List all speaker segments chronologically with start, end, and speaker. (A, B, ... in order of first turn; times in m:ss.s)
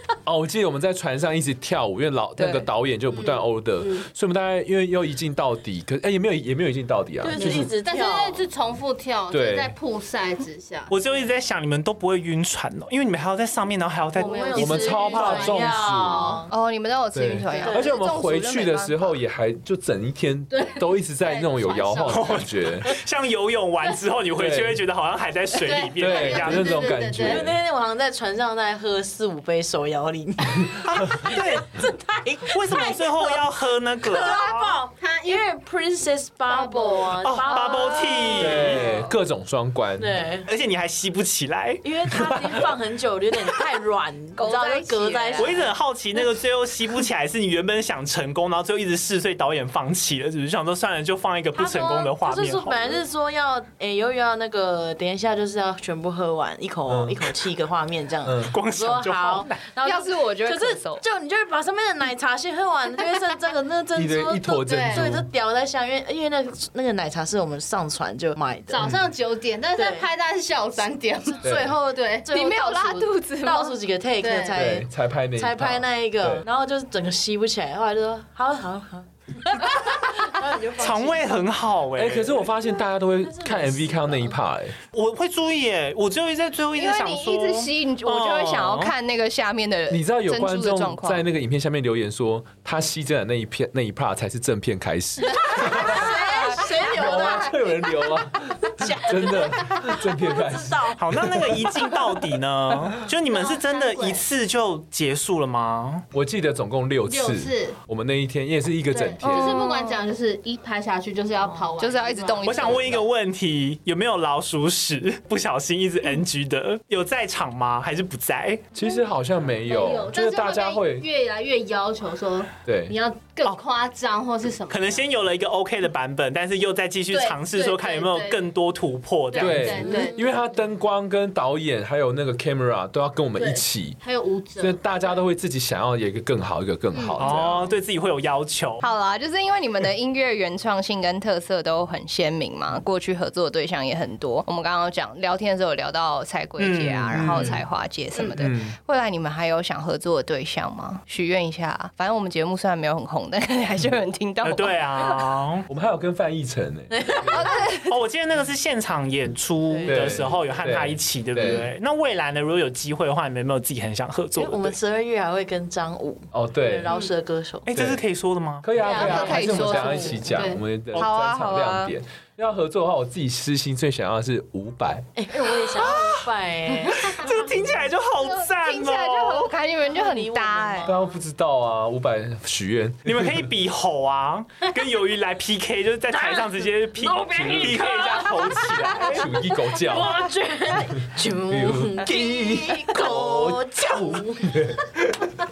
0:00.3-0:07.7 A
0:02.4-0:02.7 B
0:03.3-0:04.1 C
0:07.2-0:08.5 D
0:07.3-0:11.2 C
0:09.3-0:09.7 A
0:10.9-0:14.8 E
0:14.2-0:16.4 C
0:14.2-0:16.5 D
0:14.6-0:16.3 A
0:16.5-0:19.2 B
0:17.1-0:22.9 A
0:17.5-0:18.1 D
0:20.5-0:22.4 C
0:22.1-0:26.6 E
0:24.4-0:24.8 A
0:25.6-0:27.5 C
0:26.0-0:27.6 A
0:27.2-0:33.4 D
0:30.8-0:34.7 E
0:34.0-0:38.7 D
0:35.0-0:35.5 C
0:36.5-0:38.0 C
0:37.2-0:38.8 E
0:37.7-0:39.1 B
0:38.4-0:40.2 A
0:40.0-0:40.5 D
0:40.5-0:41.8 E
0:41.8-0:45.7 D
0:44.4-0:45.6 B
0:45.4-0:53.0 E
0:51.6-1:08.9 D
0:56.9-0:57.2 A
0:58.2-0:58.5 A
0:58.5-0:59.6 E
0:59.8-1:01.0 B
1:04.0-1:05.3 A
1:04.6-1:05.0 C
1:08.7-1:12.3 C
1:09.8-1:10.1 D
1:11.4-1:21.3 D
1:11.4-1:11.7 A
1:12.3-1:13.8 B
1:14.2-1:14.6 C
1:14.5-1:16.5 A
1:20.8-1:22.5 E
1:22.0-1:24.8 A
1:23.2-1:24.3 D
1:24.9-1:28.9 E
1:26.8-1:31.2 B
1:29.9-1:36.2 A
1:35.3-1:37.5 B
1:35.4-1:37.6 D
1:36.8-1:42.0 A
1:38.8-1:41.0 D
1:41.0-1:46.0 E
1:43.3-1:44.2 C
1:46.1-1:49.6 A
1:47.1-1:47.8 C
1:48.9-1:52.9 C
1:49.2-1:50.0 B
1:51.8-1:53.1 B
1:52.4-1:58.7 E
1:58.7-2:01.1 A
1:59.7-2:05.1 C
2:02.6-2:02.9 A
2:04.7-2:09.8 E
2:07.1-2:08.4 C
2:09.3-2:10.2 C
2:09.4-2:14.0 A
2:09.6-2:10.1 D
2:13.4-2:14.8 C
2:14.6-2:17.7 A
2:17.2-2:18.8 E
2:18.8-2:35.4 B
2:26.6-2:27.6 E
2:27.1-2:27.6 A
2:28.4-2:28.8 A
2:34.4-2:35.7 E
2:35.7-2:37.4 A
2:36.9-2:37.6 D
2:37.3-2:38.0 B
2:37.9-2:44.8 E
2:39.7-2:40.4 D
2:39.9-2:41.6 A
2:44.4-2:47.7 D
2:46.3-2:46.9 A
2:47.7-2:48.7 E
2:47.8-2:48.0 A
2:48.6-2:55.1 A
2:48.8-2:50.6 C
2:48.8-2:50.4 B
2:49.1-2:50.2 D
2:50.9-2:51.9 B
2:55.2-2:57.4 D
2:55.8-2:56.1 E
2:57.0-2:59.5 E
2:58.2-3:00.9 B
2:59.9-3:00.9 D
3:00.8-3:03.4 A
3:03.0-3:09.3 E
3:06.1-3:08.3 D
3:07.2-3:10.3 A
3:09.8-3:14.5 D
3:11.5-3:15.3 A